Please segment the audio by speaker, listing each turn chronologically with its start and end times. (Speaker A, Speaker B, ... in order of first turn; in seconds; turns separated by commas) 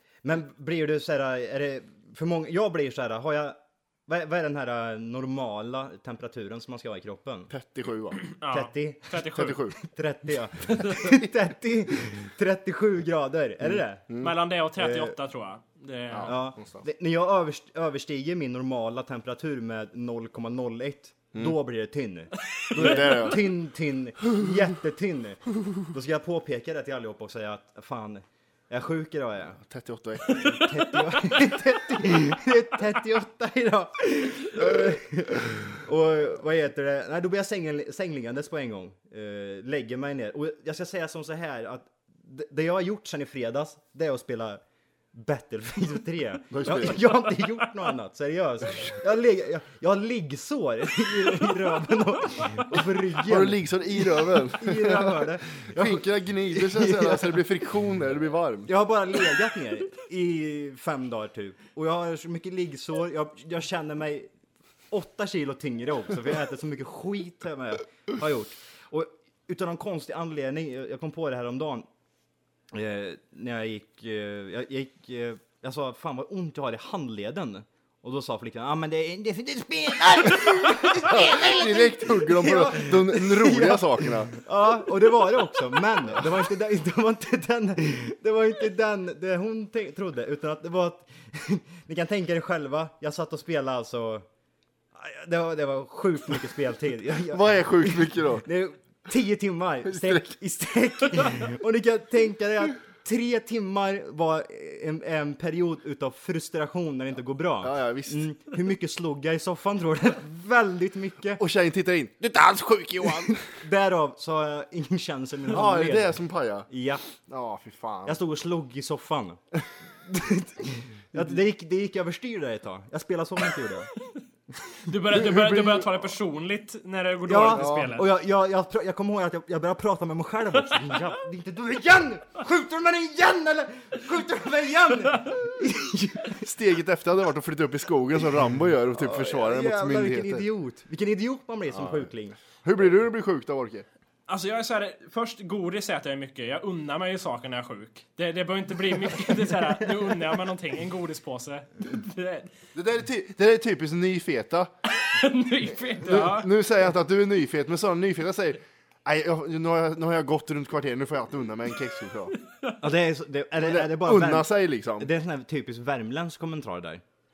Speaker A: 0.2-7.5, Speaker B: 7.5-8.2, Speaker C: 8.3-9.7, Speaker A: 8.5-9.3, Speaker B: 9.2-9.7, Speaker A: 9.8-14.1, Speaker B: 13.6-14.3, Speaker C: 14.2-16.4, Speaker A: 14.8-15.2, Speaker B: 16.1-16.9, Speaker A: 16.2-29.6, Speaker B: 22.7-23.4, Speaker B: 29.6-30.4, Speaker C: 30.3-30.6, Speaker A: 30.4-44.6, Speaker A: 45.1-57.4, Speaker B: 46.5-47.0, Speaker B: 53.2-58.7, Speaker A: 58.7-64.3, Speaker A: 64.9-71.9, Speaker A: 72.7-94.3, Speaker B: 80.7-84.3, Speaker A: 95.0-111.4, Speaker B: 97.2-98.5, Speaker B: 99.9-100.2, Speaker B: 107.6-108.3, Speaker B: 111.4-113.4, Speaker A: 113.1-117.0, Speaker B: 115.5-116.7, Speaker B: 117.2-118.2, Speaker A: 118.1-119.4, Speaker A: 120.1-123.9, Speaker C: 124.8-128.1, Speaker B: 125.1-126.1, Speaker A: 127.3-136.4, Speaker B: 127.5-128.0, Speaker C: 130.7-131.0, Speaker B: 136.4-140.5, Speaker A: 138.9-142.4, Speaker B: 141.7-142.1, Speaker B: 142.6-143.9, Speaker C: 144.3-152.5, Speaker B: 152.7-154.7, Speaker C: 155.1-156.5, Speaker B: 156.0-162.3, Speaker A: 162.8-167.0, Speaker B: 163.6-165.1